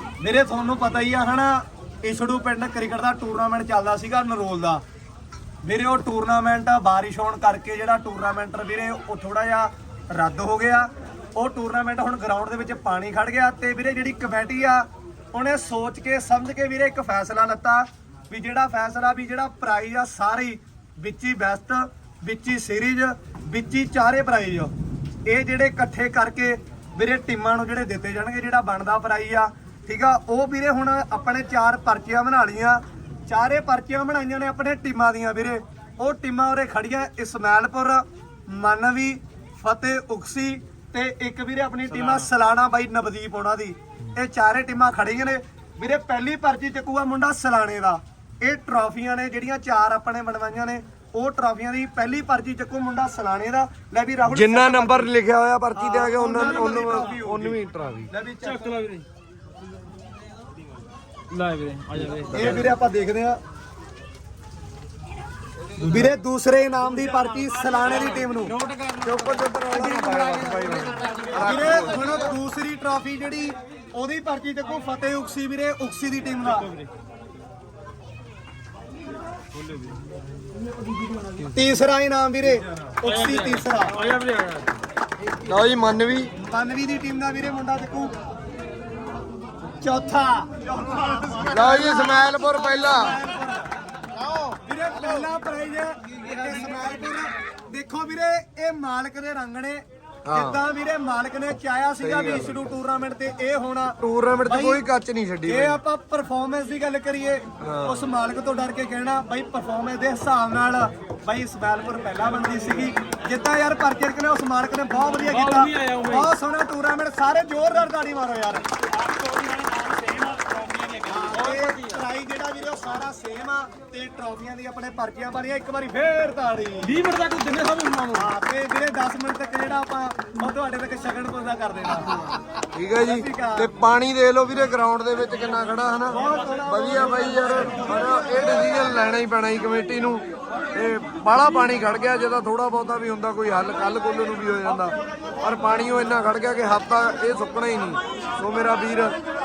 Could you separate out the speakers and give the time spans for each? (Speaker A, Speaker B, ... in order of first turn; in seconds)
Speaker A: 0.2-4.8, 5.6-24.7, 25.3-55.1, 55.8-57.6, 58.1-58.8, 62.3-63.4, 65.8-68.6, 71.3-76.7, 81.4-84.0, 86.4-88.1, 89.8-93.7, 94.6-104.8, 105.5-118.7, 121.1-127.0, 128.1-132.3, 133.0-133.7, 136.1-139.0
Speaker B: 54.3-58.1, 69.0-72.3, 85.4-86.3, 91.5-93.2, 100.3-100.6, 102.0-102.6, 104.0-105.8, 107.6-108.1, 132.7-149.2
Speaker C: 58.4-59.1, 61.3-62.7, 68.5-69.4, 76.5-76.9, 79.5-80.0, 83.0-84.8, 115.2-116.3, 118.9-122.0, 126.8-128.3